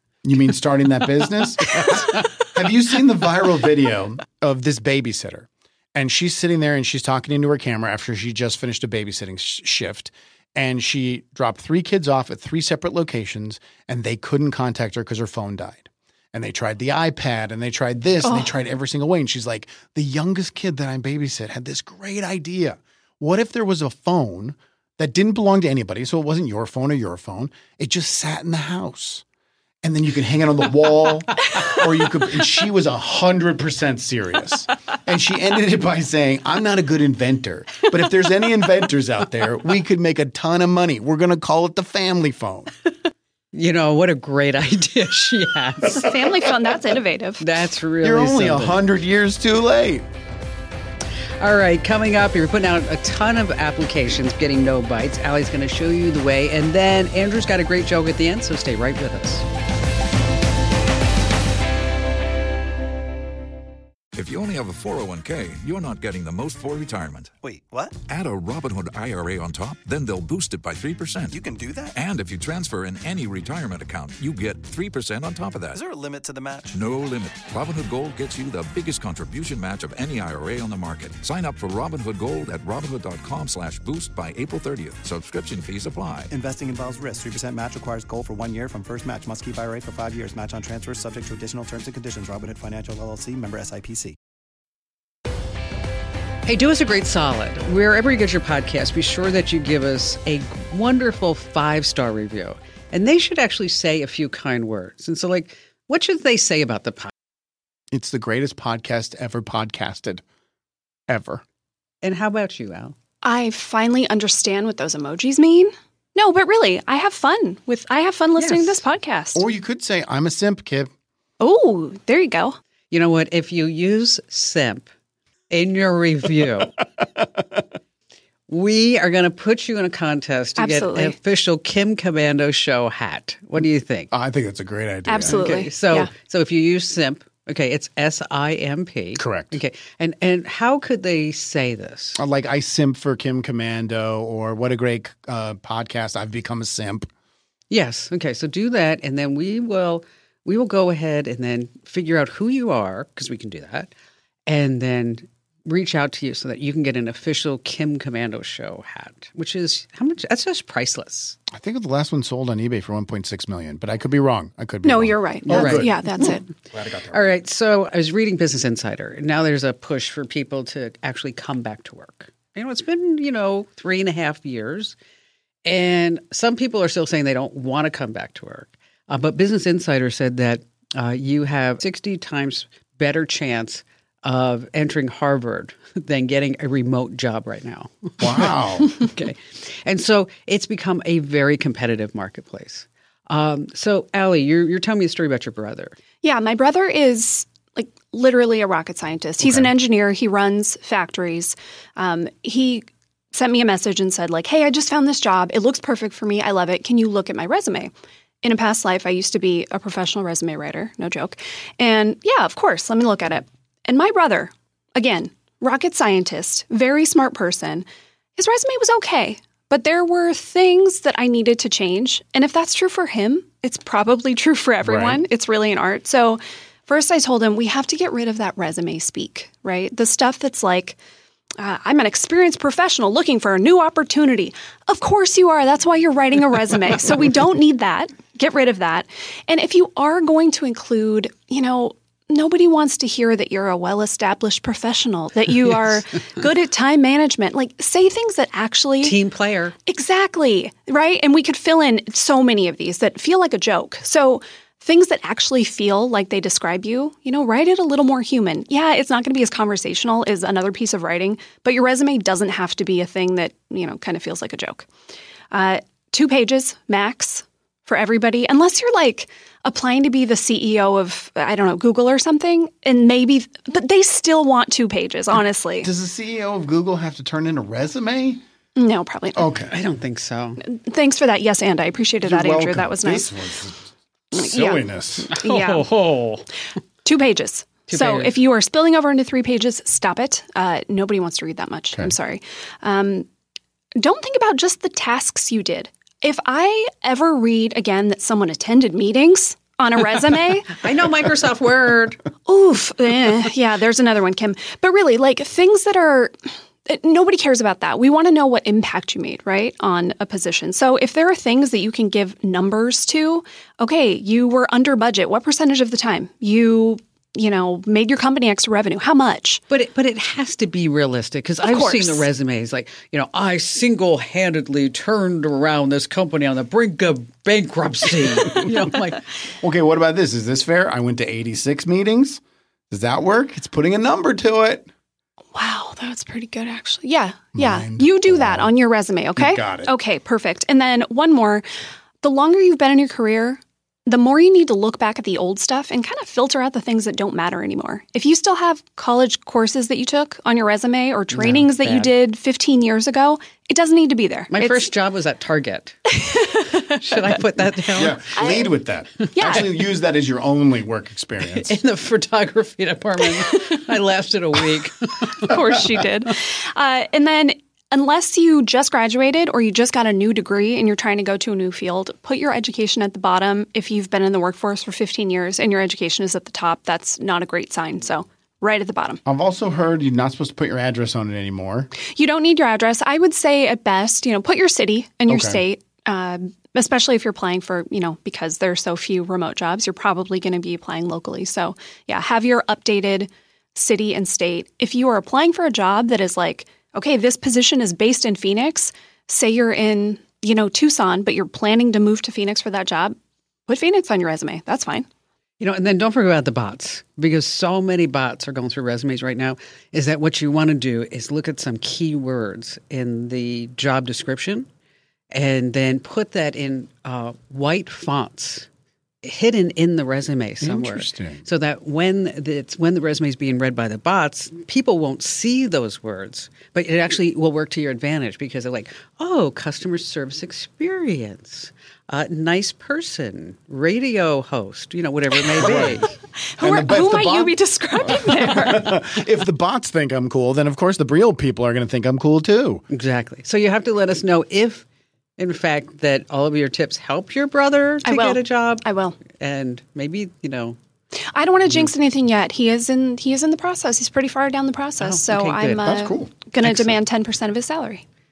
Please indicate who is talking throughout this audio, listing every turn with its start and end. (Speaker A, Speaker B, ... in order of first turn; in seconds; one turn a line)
Speaker A: 0.2-29.2
Speaker B: 1.7-2.2
Speaker C: 18.2-18.5
Speaker A: 29.8-42.7
Speaker B: 43.5-46.1
Speaker C: 45.9-47.4
Speaker B: 47.4-48.8
Speaker A: 48.0-50.1
Speaker B: 51.4-59.5
Speaker D: 64.1-67.3
Speaker E: 67.4-68.0
Speaker D: 68.1-71.4
Speaker E: 71.3-72.0
Speaker D: 71.9-75.8
Speaker E: 75.7-76.8
Speaker D: 76.7-86.3
Speaker E: 86.3-94.2
Speaker B: 96.5-107.1
Speaker A: 107.9-110.2
Speaker A: 111.1-111.4
Speaker B: 112.0-113.0
Speaker C: 113.2-119.4
Speaker B: 118.4-118.8
Speaker A: 119.3-120.9
Speaker C: 121.4-122.6
Speaker B: 122.9-124.9
Speaker B: 125.5-126.8
Speaker B: 128.5-134.1
Speaker C: 130.6-131.2
Speaker A: 134.1-135.6
Speaker C: 135.1-136.1
Speaker B: 135.2-142.2
Speaker A: 139.2-139.6
Speaker A: 142.2-147.1
Speaker B: 147.7-153.9
Speaker B: 154.5-161.4
Speaker A: 161.5-166.0
Speaker C: 164.8-166.4
Speaker B: 165.5-165.9
Speaker A: 166.8-167.3
Speaker B: 167.1-174.9
Speaker B: 175.6-195.9
Speaker A: 188.2-188.9
Speaker C: 196.2-207.9
Speaker A: 199.4-199.7
Speaker C: 208.4-217.9
Speaker C: 218.4-231.0
Speaker A: 224.8-225.2
Speaker C: 231.6-249.2
Speaker B: 249.0-249.7
Speaker C: 249.9-264.9
Speaker C: 265.5-275.9
Speaker A: 275.8-278.4
Speaker C: 278.8-279.5
Speaker A: 279.4-279.8
Speaker B: 279.7-280.6
Speaker C: 280.6-283.3
Speaker A: 282.2-285.3
Speaker C: 284.4-285.9
Speaker B: 285.3-286.5
Speaker C: 287.1-293.3
Speaker B: 287.9-288.3
Speaker C: 294.0-300.8
Speaker B: 300.7-302.2
Speaker C: 302.5-306.4
Speaker C: 306.9-319.6
Speaker B: 319.7-329.2
Speaker C: 321.6-322.3
Speaker A: 329.6-334.9
Speaker C: 335.5-341.7
Speaker A: 337.6-338.7
Speaker A: 339.4-339.9
Speaker C: 342.2-354.9
Speaker B: 351.3-352.1
Speaker B: 354.5-356.0
Speaker C: 356.1-357.0
Speaker B: 356.8-358.2
Speaker A: 357.9-361.8
Speaker C: 358.4-358.8
Speaker C: 359.4-359.7
Speaker B: 361.4-365.5
Speaker C: 365.3-379.2
Speaker A: 379.2-381.9
Speaker C: 382.1-403.1
Speaker A: 385.3-385.6
Speaker C: 403.7-405.1
Speaker B: 405.6-414.7
Speaker B: 415.3-418.7
Speaker B: 419.2-436.1
Speaker A: 420.6-421.4
Speaker A: 435.6-436.1
Speaker C: 436.5-439.0
Speaker A: 436.6-442.8
Speaker B: 442.9-444.9
Speaker B: 445.4-450.8
Speaker C: 448.1-449.2
Speaker C: 451.3-458.0
Speaker B: 455.0-455.9
Speaker A: 455.8-457.0